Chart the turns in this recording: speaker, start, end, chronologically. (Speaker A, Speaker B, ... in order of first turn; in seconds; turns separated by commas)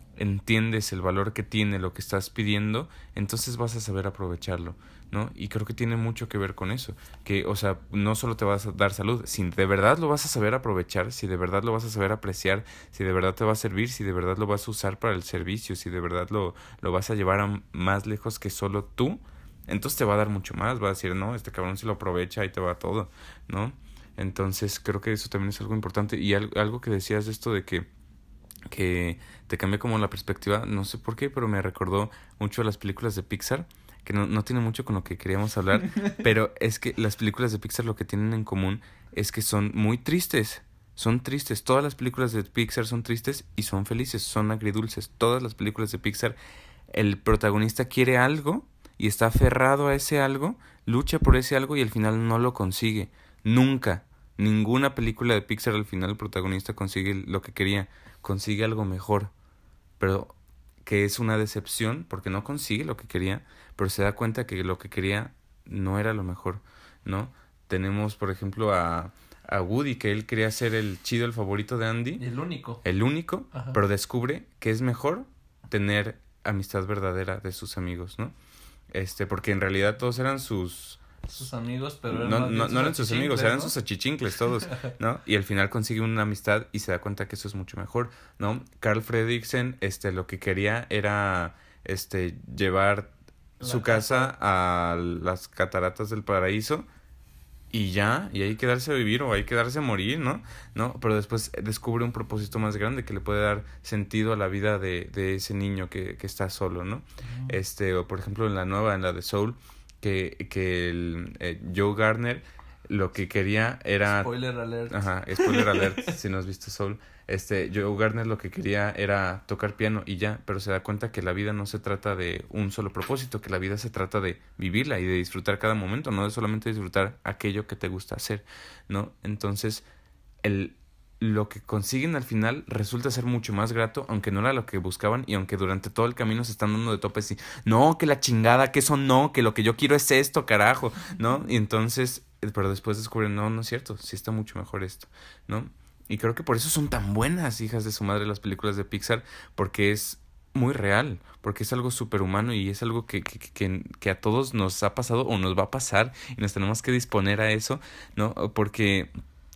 Speaker A: 0.1-27.9, Speaker A: 28.7-46.4, Speaker A: 46.9-59.3, Speaker A: 60.0-72.2, Speaker B: 72.2-72.8, Speaker A: 72.8-78.3, Speaker B: 73.5-73.8, Speaker A: 78.9-81.1, Speaker B: 81.3-83.8, Speaker A: 82.1-96.8, Speaker B: 93.6-94.3, Speaker A: 97.7-114.3, Speaker B: 107.2-107.6, Speaker B: 114.0-116.2, Speaker A: 114.9-129.8, Speaker A: 130.4-159.1